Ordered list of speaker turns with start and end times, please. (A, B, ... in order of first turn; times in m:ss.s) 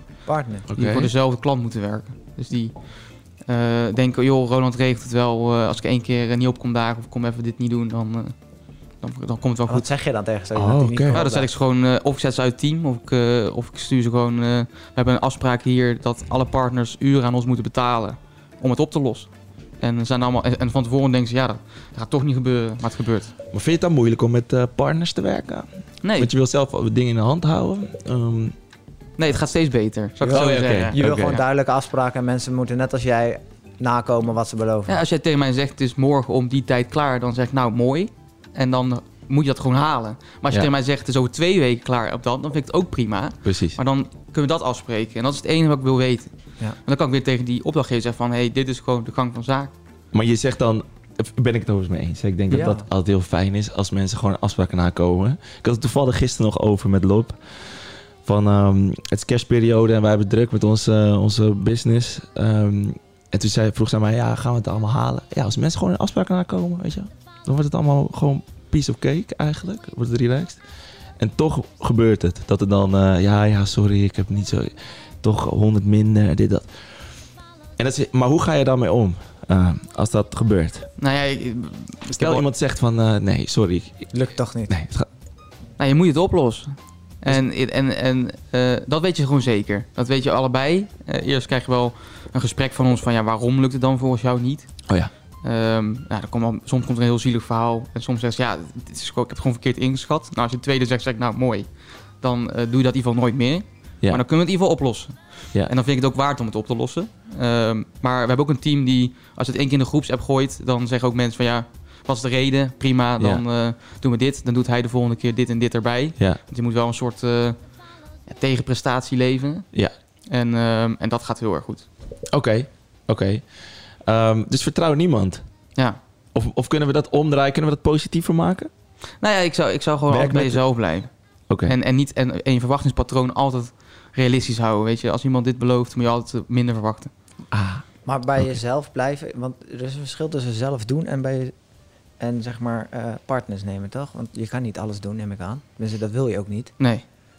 0:00.3-0:00.7 A
0:00.7-0:01.1 B
0:00.8-0:08.4 C
0:09.0-0:09.9 C
0:09.7-0:11.5 A
0:10.5-0:11.2 B
0:11.1-0:23.3 C
0:23.5-0:28.6 B
0:26.0-0:26.3 C
0:29.2-0:31.4 C
0:30.2-0:35.0 A
0:30.3-0:31.4 B
0:34.9-0:46.3 C
0:43.4-0:43.8 B
0:46.8-0:49.7 C
0:50.1-1:10.6 B
0:52.5-0:52.8 A
1:11.2-1:16.7 B
1:17.8-1:20.9 B
1:21.0-1:22.4 C
1:22.2-1:25.1 B
1:24.1-1:24.7 A
1:25.8-1:34.8 C
1:35.4-1:41.7 C
1:42.2-1:57.7 C
1:58.3-1:59.7 C
2:00.3-2:01.9 C
2:02.3-2:03.5 B
2:04.0-2:05.4 B
2:06.3-2:08.7 B
2:09.2-2:11.1 C
2:10.1-2:10.6 B
2:11.5-2:11.8 B
2:11.6-2:17.1 C
2:17.5-2:17.8 B
2:18.0-2:21.5 A
2:22.2-2:26.7 A
2:26.8-2:27.0 C